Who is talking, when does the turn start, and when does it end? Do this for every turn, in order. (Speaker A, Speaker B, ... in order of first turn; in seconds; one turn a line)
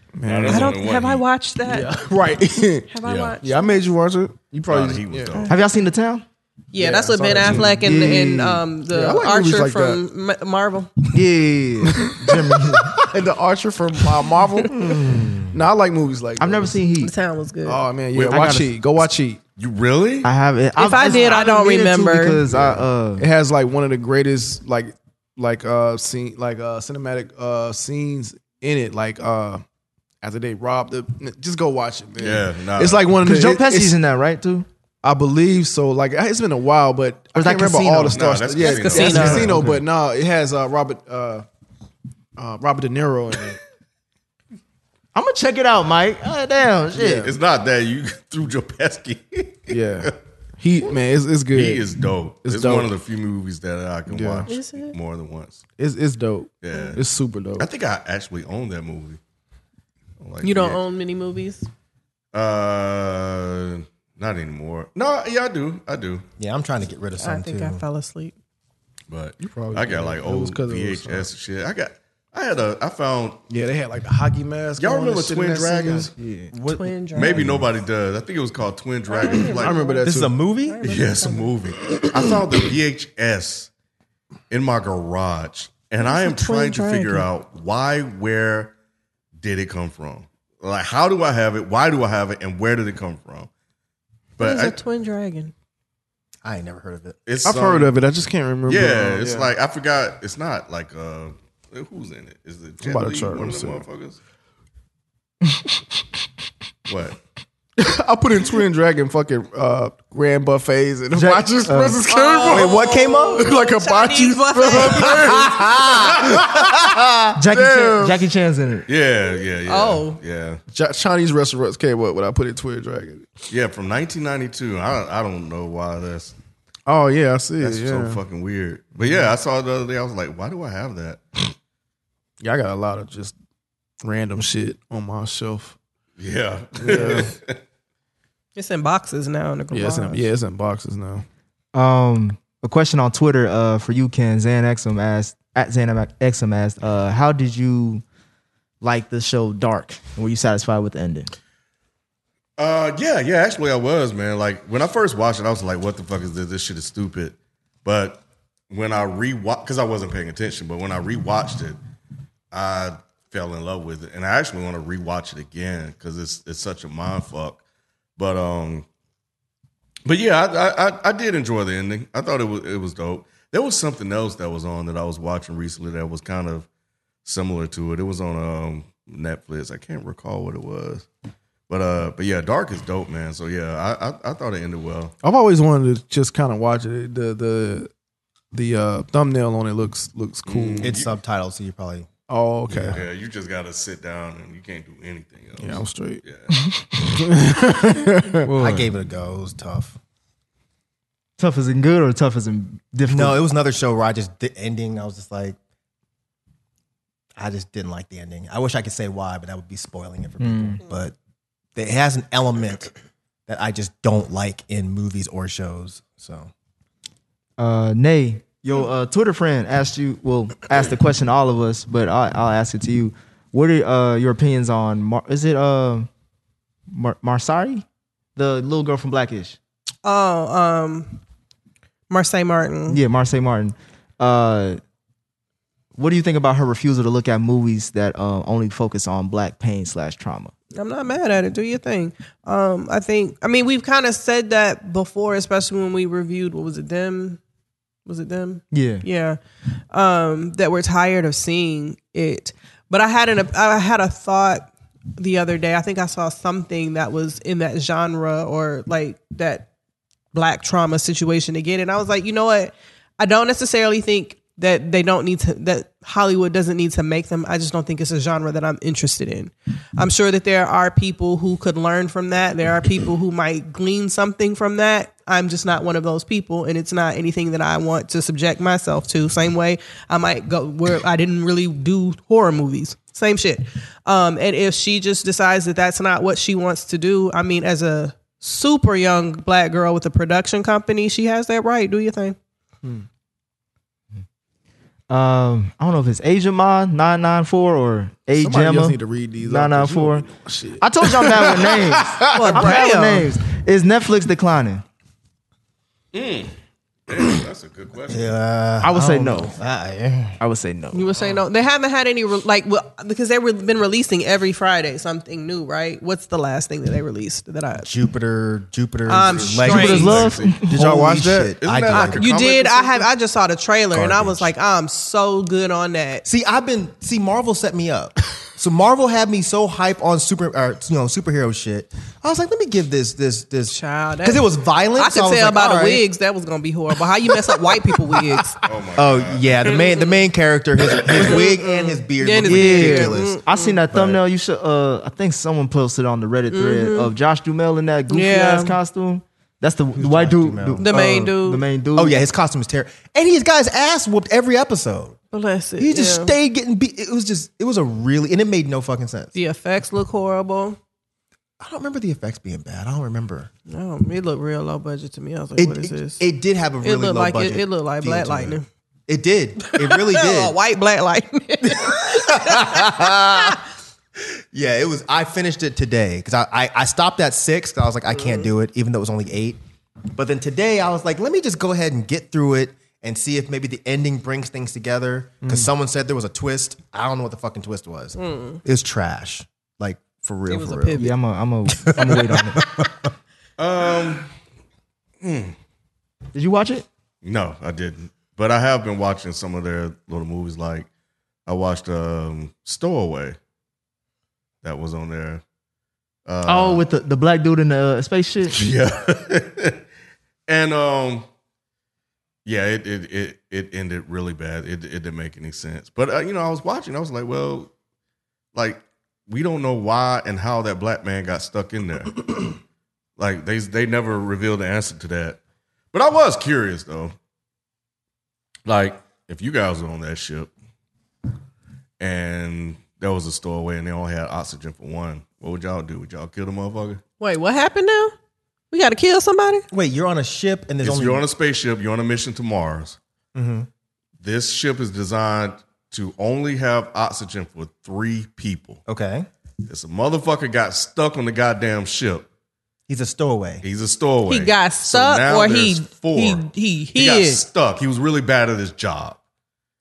Speaker A: 0.2-0.8
Speaker B: 0.2-1.2
Speaker C: 0.5-2.0
Speaker A: 1.7-5.4
Speaker C: 2.9-3.8
Speaker B: 3.0-3.4
Speaker B: 4.7-5.6
Speaker C: 5.3-5.6
Speaker D: 5.5-6.2
Speaker C: 6.7-10.9
Speaker A: 6.8-8.3
Speaker D: 7.8-8.6
Speaker A: 8.9-10.0
Speaker D: 11.1-13.0
Speaker A: 11.9-14.9
Speaker E: 14.7-15.6
Speaker A: 15.5-16.8
Speaker D: 16.4-17.1
Speaker C: 17.0-17.8
Speaker A: 17.6-19.4
Speaker B: 18.1-18.6
Speaker D: 18.3-18.7
Speaker B: 19.6-20.3
Speaker D: 20.2-23.3
Speaker C: 20.8-22.4
Speaker A: 22.5-29.6
Speaker A: 30.2-34.0
Speaker B: 32.2-33.2
Speaker D: 33.2-34.7
Speaker A: 35.0-41.5
Speaker D: 37.4-38.3
Speaker B: 38.1-39.6
Speaker C: 38.7-39.5
Speaker D: 38.8-39.8
Speaker A: 42.4-43.6
Speaker D: 45.1-47.3
Speaker A: 47.0-47.3
Speaker B: 47.0-50.1
Speaker A: 49.7-51.9
Speaker B: 51.5-55.6
Speaker A: 52.4-52.9
Speaker A: 54.1-54.5
Speaker C: 54.5-55.0
Speaker A: 55.8-57.7
Speaker B: 56.6-57.0
Speaker B: 57.6-59.2
Speaker B: 60.2-60.8
Speaker C: 60.4-61.7
Speaker B: 62.3-66.2
Speaker E: 66.4-67.8
Speaker C: 67.2-68.3
Speaker B: 69.1-73.4
Speaker A: 69.4-71.3
Speaker A: 73.5-76.1
Speaker B: 74.8-76.1
Speaker D: 75.9-76.5
Speaker E: 76.5-77.7
Speaker C: 76.7-77.4
Speaker B: 77.1-79.8
Speaker C: 79.1-80.0
Speaker A: 79.3-80.3
Speaker E: 80.0-80.9
Speaker C: 80.7-81.6
Speaker B: 80.8-83.7
Speaker B: 84.5-88.7
Speaker C: 86.0-87.3
Speaker B: 89.4-93.5
Speaker B: 94.4-94.8
Speaker C: 94.4-95.5
Speaker E: 96.4-97.2
Speaker B: 97.3-97.9
Speaker A: 97.4-99.5
Speaker B: 98.7-104.2
Speaker A: 102.8-103.8
Speaker B: 106.9-107.2
Speaker A: 107.8-118.2
Speaker D: 111.3-112.0
Speaker C: 112.1-115.6
Speaker E: 112.5-113.5
Speaker E: 115.5-117.2
Speaker D: 117.3-118.9
Speaker B: 118.9-120.6
Speaker C: 119.7-120.2
Speaker A: 120.7-123.4
Speaker B: 123.5-126.3
Speaker A: 126.9-128.2
Speaker B: 127.6-131.2
Speaker A: 132.4-133.3
Speaker A: 134.0-135.8
Speaker B: 136.2-137.6
Speaker A: 136.8-137.3
Speaker C: 138.6-140.3
Speaker A: 139.7-141.2
Speaker D: 141.7-148.0
Speaker D: 148.8-151.3
Speaker B: 152.6-161.8
Speaker B: 162.5-167.6
Speaker B: 168.2-168.9
Speaker B: 170.1-176.7
Speaker B: 177.2-181.1
Speaker B: 181.7-185.1
Speaker A: 185.2-187.9
Speaker A: 188.5-191.0
Speaker B: 190.5-191.1
Speaker E: 190.8-192.1
Speaker A: 192.3-193.0
Speaker E: 192.7-193.0
Speaker B: 192.9-196.5
Speaker A: 195.6-196.2
Speaker A: 196.9-198.5
Speaker D: 198.4-198.9
Speaker E: 198.5-200.0
Speaker D: 201.4-203.4
Speaker E: 203.1-205.6
Speaker E: 207.4-211.1
Speaker D: 210.4-210.8
Speaker E: 211.8-212.9
Speaker E: 213.5-216.5
Speaker D: 217.6-226.1
Speaker D: 226.9-227.8
Speaker D: 228.4-229.6
Speaker C: 230.0-231.2
Speaker C: 232.1-233.0
Speaker D: 232.9-234.8
Speaker D: 235.9-240.5
Speaker C: 240.7-247.4
Speaker C: 248.1-249.4
Speaker D: 248.7-249.0
Speaker C: 249.9-259.7
Speaker C: 260.3-292.4
Speaker D: 295.1-300.3
Speaker A: 298.4-302.9
Speaker D: 300.8-304.8
Speaker C: 302.3-303.3
Speaker B: 306.1-306.5
Speaker B: 307.1-308.4
Speaker E: 308.1-310.4
Speaker D: 308.8-309.6
Speaker D: 310.4-311.1
Speaker C: 310.9-317.9
Speaker E: 317.8-322.3
Speaker C: 319.1-320.2
Speaker B: 319.3-320.6
Speaker D: 319.7-320.7
Speaker A: 320.7-321.6
Speaker B: 321.6-323.1
Speaker C: 321.9-326.2
Speaker E: 323.9-324.5
Speaker E: 326.2-336.0
Speaker C: 333.7-338.6
Speaker B: 338.6-339.7
Speaker E: 339.0-343.4
Speaker C: 339.7-340.3
Speaker C: 341.1-343.8
Speaker D: 342.4-352.3
Speaker E: 343.9-344.2
Speaker C: 346.5-347.1
Speaker C: 348.1-348.8
Speaker E: 350.0-350.9
Speaker C: 350.8-351.7
Speaker E: 351.9-355.2
Speaker C: 355.3-356.4
Speaker E: 355.8-359.3
Speaker C: 359.4-360.8
Speaker E: 361.6-363.5
Speaker C: 363.7-366.2
Speaker E: 365.6-370.6
Speaker C: 366.8-368.7
Speaker C: 369.6-373.6
Speaker E: 371.6-373.6
Speaker E: 374.2-379.6
Speaker C: 378.1-378.5
Speaker E: 380.1-391.1
Speaker C: 388.1-388.6
Speaker C: 390.5-391.1
Speaker D: 391.0-392.6
Speaker E: 391.8-393.1
Speaker B: 393.6-394.3
Speaker B: 395.2-395.6
Speaker D: 396.3-396.9
Speaker B: 397.2-400.9
Speaker B: 401.5-403.4
Speaker B: 404.6-405.4
Speaker B: 406.3-406.9
Speaker D: 406.4-408.7
Speaker B: 408.5-409.8
Speaker B: 410.5-411.3
Speaker B: 412.4-417.7
Speaker B: 418.5-422.6
Speaker B: 423.2-425.4
Speaker B: 425.9-427.1
Speaker B: 428.7-430.5
Speaker B: 432.0-437.0
Speaker C: 437.2-438.1
Speaker C: 438.7-439.6
Speaker E: 439.7-441.3
Speaker B: 440.8-443.0
Speaker E: 443.3-443.7
Speaker B: 444.2-448.8
Speaker E: 448.9-449.3
Speaker B: 449.7-452.3
Speaker E: 452.9-453.6
Speaker B: 453.6-459.2
Speaker C: 454.3-457.4